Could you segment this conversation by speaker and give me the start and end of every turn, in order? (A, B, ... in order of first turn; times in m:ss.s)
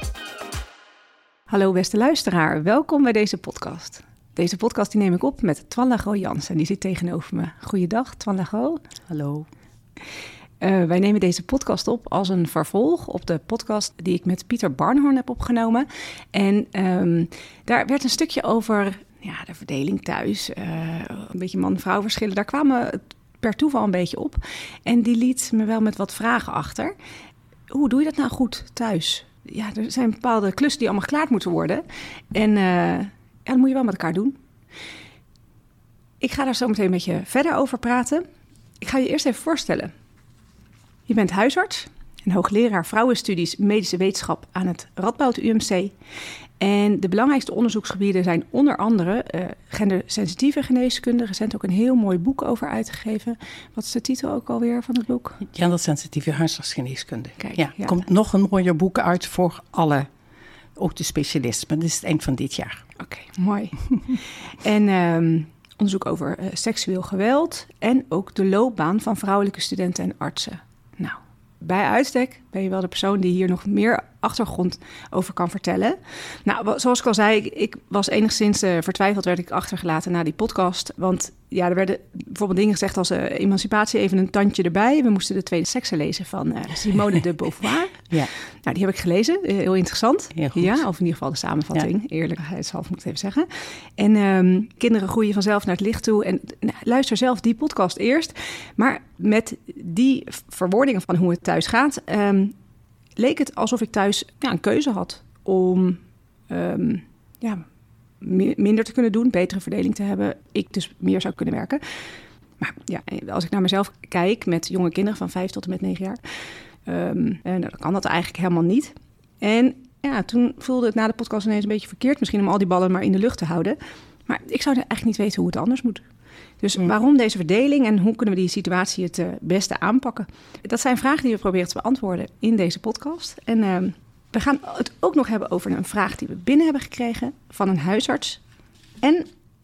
0:01.5-0:08.8 A
0:09.1-0:09.4 B
0:10.6-0:26.9 A
0:27.7-0:34.4 A
0:36.2-0:38.2 A
0:38.8-0:39.9 A
0:41.1-0:45.9 A
0:46.6-0:55.4 A
0:55.4-1:00.1 B
0:57.4-0:58.0 A
1:00.8-1:02.8 B
1:03.0-1:28.1 A
1:28.6-1:42.5 A
1:30.4-1:30.8 B
1:43.2-1:47.6 A
1:48.2-1:51.8 A
1:52.6-1:56.2 A
1:56.9-2:06.0 A
2:06.6-2:18.4 A
2:19.0-2:19.3 A